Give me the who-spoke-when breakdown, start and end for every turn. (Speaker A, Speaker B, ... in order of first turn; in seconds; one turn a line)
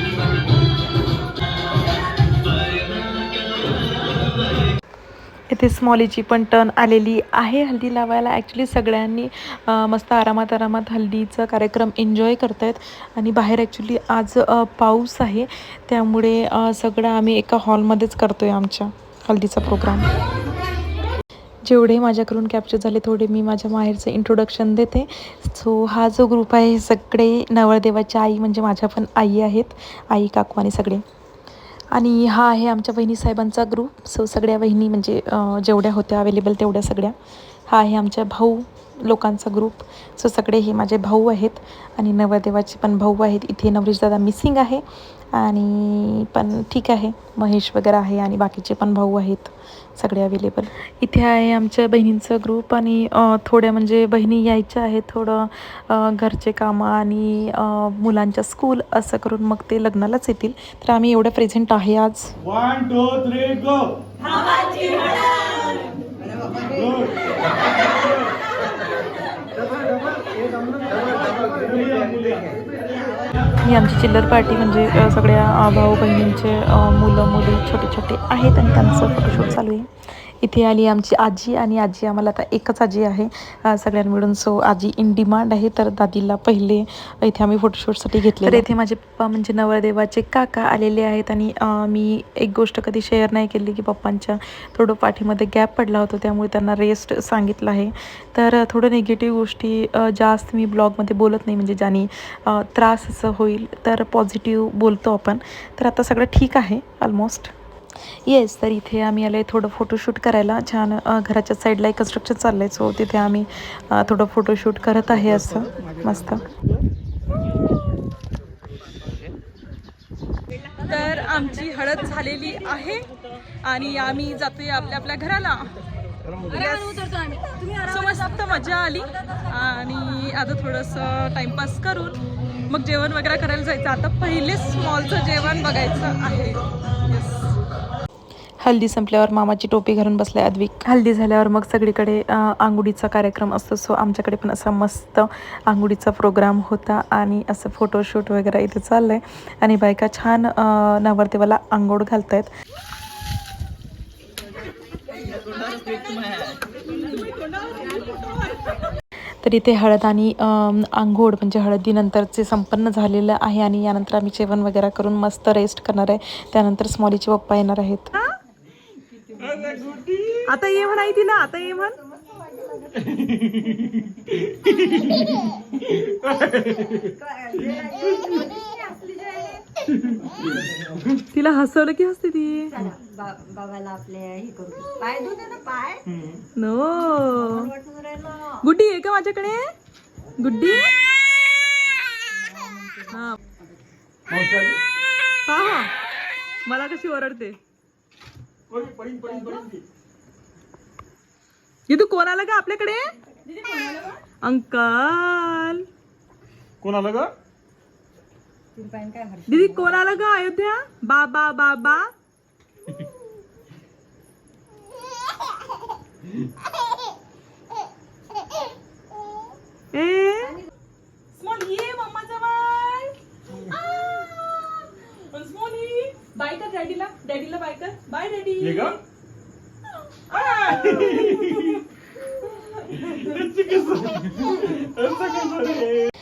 Speaker A: 5.5-20.1
Speaker A: 21.6-31.0
Speaker A: 31.9-37.1
Speaker A: 37.7-62.4
Speaker B: 64.5-65.1
Speaker A: 73.6-107.5
Speaker A: 108.1-116.4
Speaker B: 120.8-123.1
Speaker B: 123.6-125.8
Speaker B: 126.5-137.5
Speaker A: 138.6-152.5
Speaker B: 156.9-158.9
Speaker A: 159.4-168.1
Speaker B: 170.3-172.0
Speaker C: 177.8-179.6
Speaker B: 181.3-182.9
Speaker C: 183.3-185.9
Speaker B: 186.5-187.8
Speaker B: 188.6-189.7
Speaker B: 190.4-190.9
Speaker B: 193.1-193.4
Speaker C: 194.3-194.7
Speaker D: 194.4-194.7
Speaker B: 195.5-195.9
Speaker B: 196.6-197.6
Speaker C: 198.7-199.2
Speaker D: 198.8-199.4
Speaker B: 201.9-205.8
Speaker D: 206.8-207.3
Speaker C: 208.9-209.3
Speaker B: 209.5-212.1
Speaker B: 219.9-220.6
Speaker B: 221.3-229.0
Speaker B: 230.1-234.8
Speaker D: 235.1-235.8